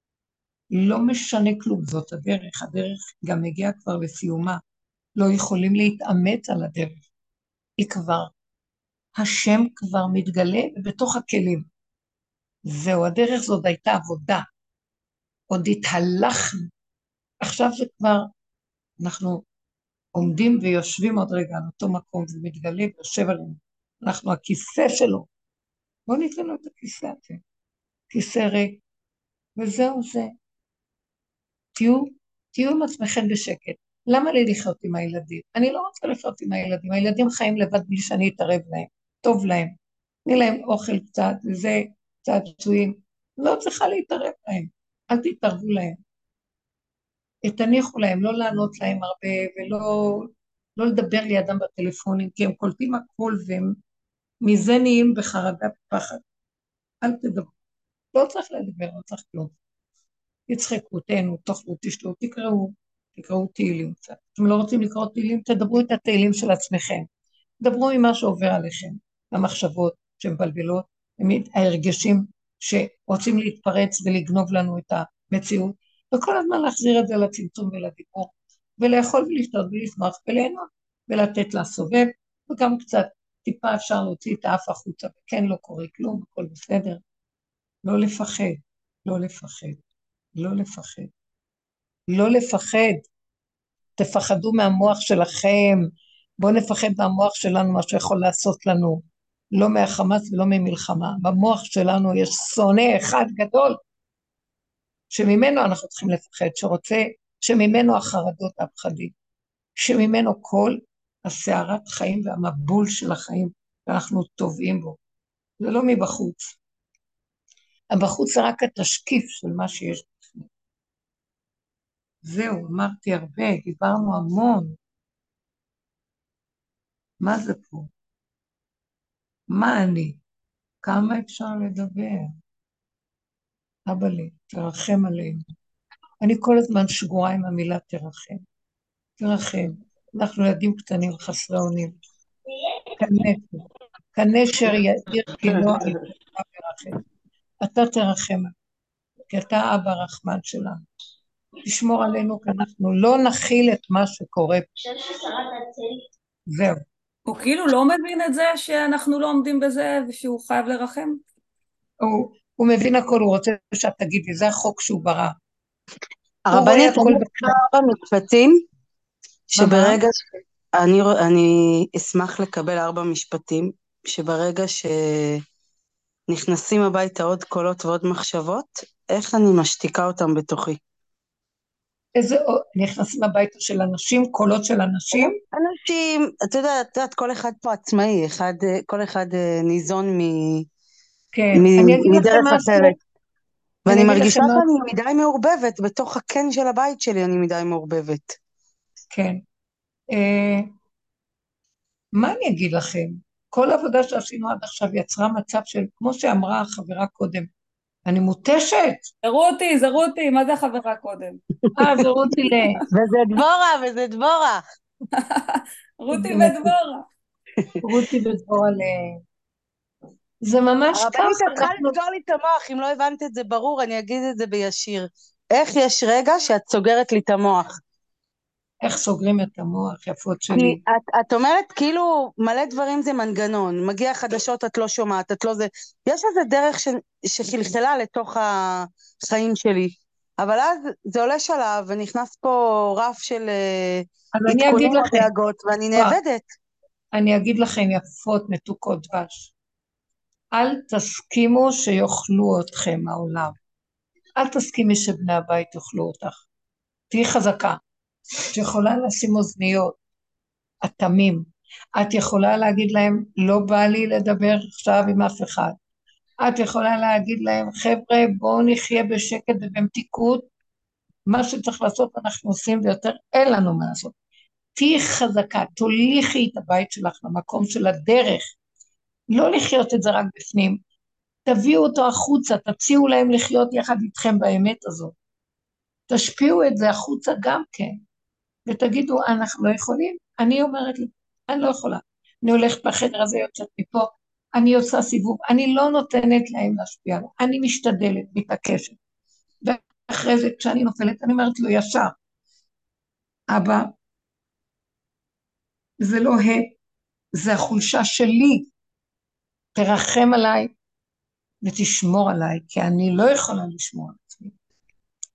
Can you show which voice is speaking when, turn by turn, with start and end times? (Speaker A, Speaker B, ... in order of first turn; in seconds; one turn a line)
Speaker A: 0.7-4.6
Speaker A: 5.2-7.0
Speaker A: 7.8-8.3
Speaker A: 9.2-11.7
Speaker A: 12.7-14.4
Speaker A: 15.5-16.7
Speaker A: 17.4-18.3
Speaker A: 19.0-19.4
Speaker A: 20.1-25.3
Speaker A: 26.1-27.4
Speaker A: 28.1-28.8
Speaker A: 29.6-30.3
Speaker A: 31.8-39.8
Speaker A: 40.3-46.0
Speaker A: 47.5-53.8
Speaker A: 54.4-56.2
Speaker A: 57.0-57.5
Speaker A: 58.1-59.5
Speaker A: 60.5-67.1
Speaker A: 67.6-87.0
Speaker A: 87.8-89.8
Speaker A: 90.4-91.1
Speaker A: 92.1-93.0
Speaker A: 94.0-95.8
Speaker A: 96.4-99.0
Speaker A: 99.5-103.8
Speaker A: 105.1-109.1
Speaker A: 109.8-115.0
Speaker A: 115.6-116.6
Speaker A: 117.9-120.5
Speaker A: 122.2-124.8
Speaker A: 127.2-127.9
Speaker A: 129.5-130.2
Speaker A: 130.8-132.3
Speaker A: 133.9-135.4
Speaker A: 136.2-138.4
Speaker A: 139.2-142.0
Speaker A: 143.0-147.0
Speaker A: 147.6-148.5
Speaker A: 149.3-150.8
Speaker A: 151.7-154.7
Speaker A: 156.5-156.8
Speaker B: 157.3-161.2
Speaker A: 162.0-165.3
Speaker C: 166.5-168.6
Speaker A: 166.5-167.6
Speaker C: 169.5-170.2
Speaker A: 169.6-170.0
Speaker C: 170.7-175.4
Speaker C: 176.3-180.8
Speaker A: 182.2-185.3
Speaker C: 185.5-190.7
Speaker A: 191.3-193.0
Speaker C: 191.5-193.0
Speaker C: 193.9-198.4
Speaker A: 193.9-194.7
Speaker A: 199.1-199.4
Speaker A: 200.1-200.7
Speaker A: 202.2-207.5
Speaker A: 208.1-209.1
Speaker B: 209.2-211.4
Speaker A: 211.8-212.8
Speaker C: 212.9-214.6
Speaker B: 215.2-217.1
Speaker A: 216.1-216.7
Speaker A: 217.8-219.2
Speaker A: 220.4-222.0
Speaker C: 220.9-227.8
Speaker A: 228.8-230.8
Speaker C: 230.5-246.5
Speaker A: 244.3-245.3
Speaker A: 247.1-249.5
Speaker A: 250.5-253.6
Speaker A: 254.4-256.4
Speaker A: 257.1-257.8
Speaker A: 258.5-260.0
Speaker A: 260.8-261.4
Speaker A: 262.0-265.8
Speaker A: 266.4-270.5
Speaker A: 271.3-274.1
Speaker A: 274.8-278.4
Speaker A: 279.3-280.8
Speaker A: 281.5-285.1
Speaker A: 286.1-288.0
Speaker A: 288.7-299.0
Speaker A: 299.6-302.1
Speaker A: 303.5-303.9
Speaker A: 306.0-306.7
Speaker A: 307.4-308.7
Speaker A: 309.8-310.7
Speaker A: 311.6-314.5